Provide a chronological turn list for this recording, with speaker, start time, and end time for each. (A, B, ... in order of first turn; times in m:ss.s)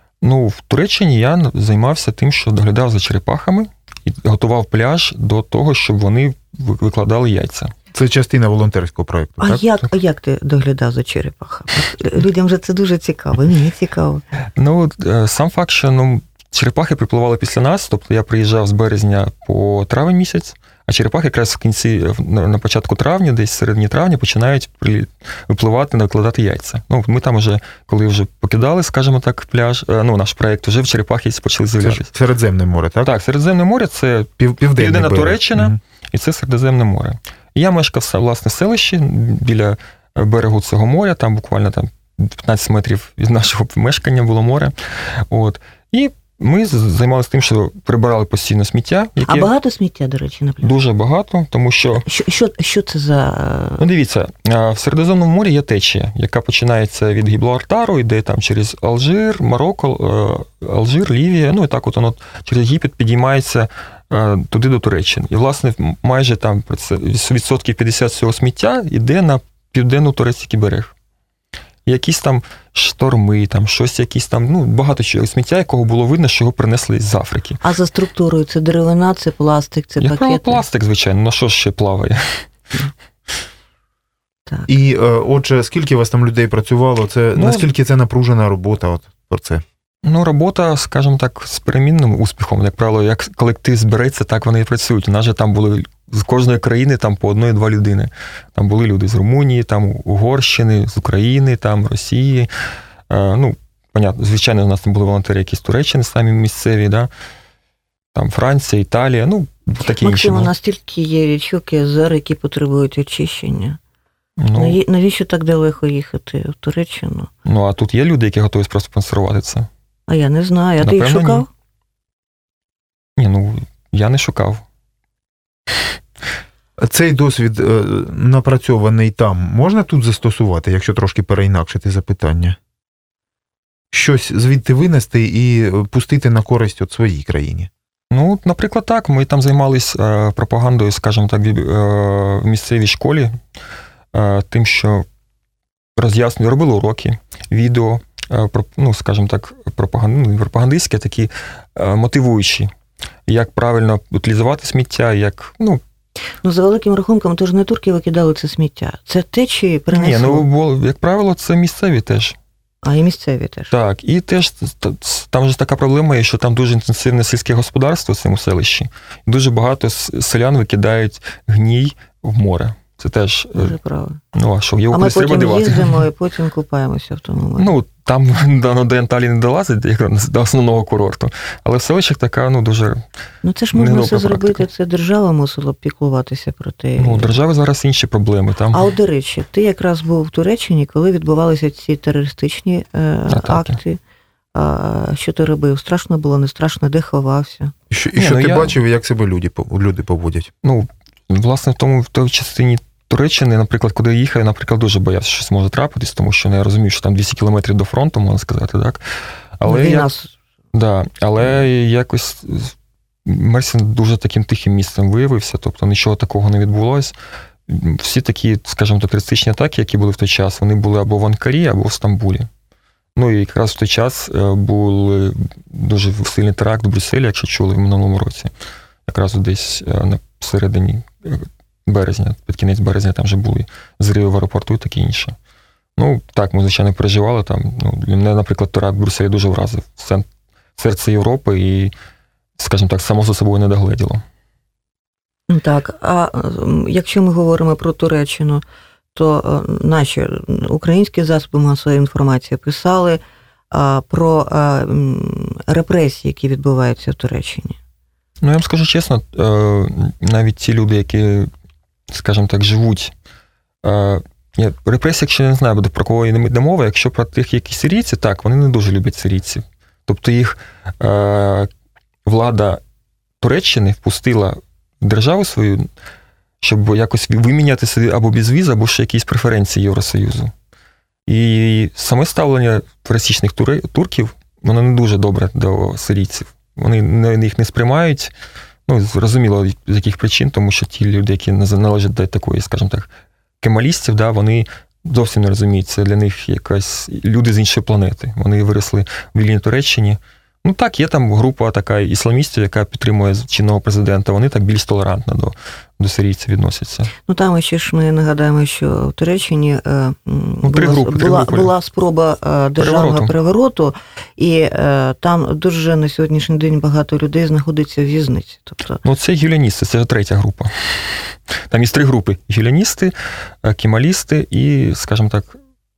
0:00.2-0:07.7 A
0:07.9-0:09.6 B
0:09.4-0:14.2 C
0:14.6-0:32.1 A
0:31.8-0:33.1 B
0:33.0-0:49.5 A
0:34.4-0:35.8 B
0:49.2-0:50.7 C
0:50.6-0:52.0 A
0:52.0-0:53.8 C
0:53.8-1:10.9 A
1:11.8-1:17.6 A
1:17.6-1:20.6 C
1:20.0-1:22.5 A
1:24.7-1:29.6 B
1:27.4-1:27.7 A
1:30.0-1:42.5 A
1:43.1-1:47.1 A
1:48.1-1:50.5 A
1:50.0-1:53.8 C
1:54.4-1:54.8 A
1:54.5-1:57.3 C
1:57.4-1:59.7 A
2:00.1-2:01.5 C
2:00.8-2:01.4 A
2:03.2-2:04.6 A
2:06.8-2:12.6 B
2:13.9-2:17.7 B
2:18.1-2:23.4 A
2:24.1-2:25.0 A
2:26.0-2:32.7 A
2:33.3-2:35.8 A
2:36.4-2:40.4 C
2:39.9-2:42.4 A
2:42.8-2:43.7 C
2:43.7-2:53.7 A
2:53.5-2:54.2 C
2:54.3-2:56.0 A
2:54.9-2:57.7 C
2:57.6-3:03.0 A
3:03.4-3:07.4 C
3:03.7-3:04.6 A
3:07.0-3:08.8 A
3:08.7-3:14.0 C
3:13.3-3:13.8 A
3:14.5-3:17.7 C
3:17.9-3:20.5 B
3:18.2-3:18.7 A
3:20.6-3:29.0 A
3:29.6-3:30.1 A
3:29.6-3:30.3 C
3:30.7-3:32.7 A
3:33.2-3:37.1 A
3:37.7-3:42.5 A
3:43.2-3:48.5 A
3:49.1-3:55.4 A
3:56.0-4:00.2 A
4:00.8-4:01.9 A
4:02.6-4:04.2 A
4:05.5-4:08.6 C
4:09.1-4:17.8 C
4:18.4-4:21.5 A
4:22.1-4:23.1 A
4:23.8-4:31.7 A
4:32.2-4:32.8 A
4:33.4-4:35.9 A
4:36.6-4:40.5 A
4:41.3-4:48.3 A
4:48.9-4:53.1 A
4:53.6-5:07.1 A
5:07.2-5:19.0 C
5:10.6-5:11.7 A
5:12.8-5:13.3 A
5:19.0-5:25.6 A